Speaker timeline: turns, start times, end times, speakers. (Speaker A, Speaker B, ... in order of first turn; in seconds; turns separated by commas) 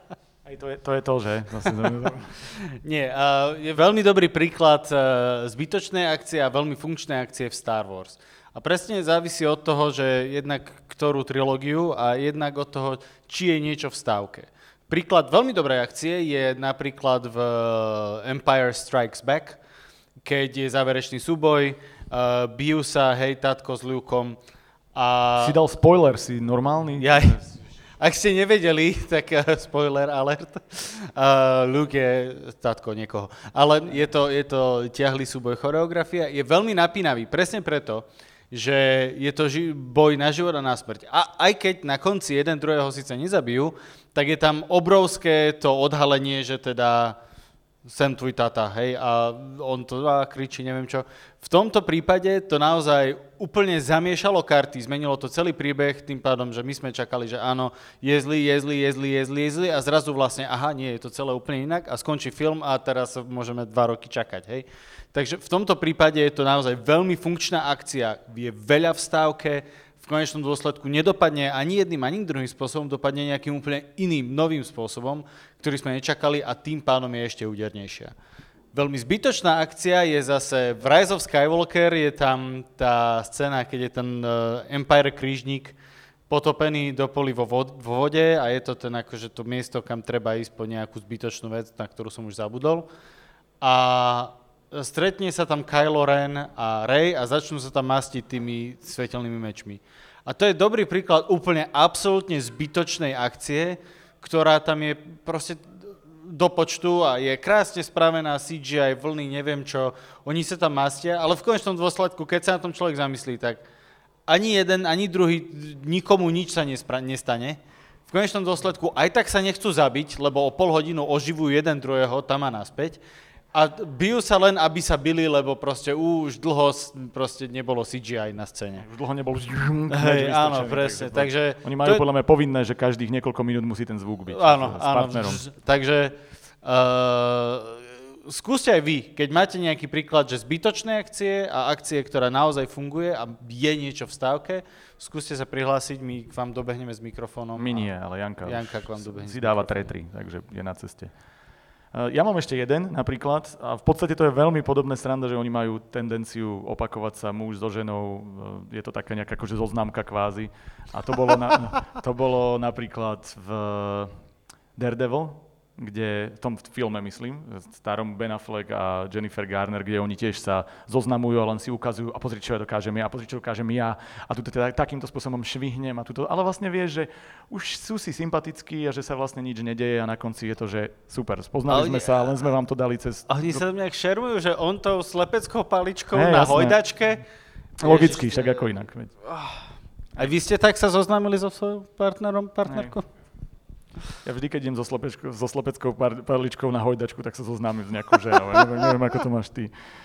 Speaker A: 0.4-2.3, Speaker B: 2.5-19.6, Speaker B: 20.2-24.4, Speaker B: 24.9-25.6, Speaker A: 25.4-27.4, Speaker B: 27.0-27.4, Speaker B: 28.0-47.2, Speaker B: 47.9-78.1, Speaker B: 78.7-85.8, Speaker B: 86.3-92.9, Speaker B: 93.6-113.6, Speaker B: 114.3-123.0, Speaker B: 123.5-128.8, Speaker A: 128.8-135.4, Speaker B: 129.9-132.0, Speaker B: 134.3-147.8, Speaker A: 147.6-151.1, Speaker B: 148.4-149.9, Speaker A: 151.9-164.1, Speaker A: 164.8-183.6, Speaker B: 181.7-182.2, Speaker B: 183.3-187.2, Speaker A: 186.1-186.8, Speaker A: 187.8-189.1, Speaker B: 187.8-188.6, Speaker B: 189.3-189.6, Speaker B: 190.2-193.1, Speaker A: 192.6-192.9, Speaker A: 194.2-199.7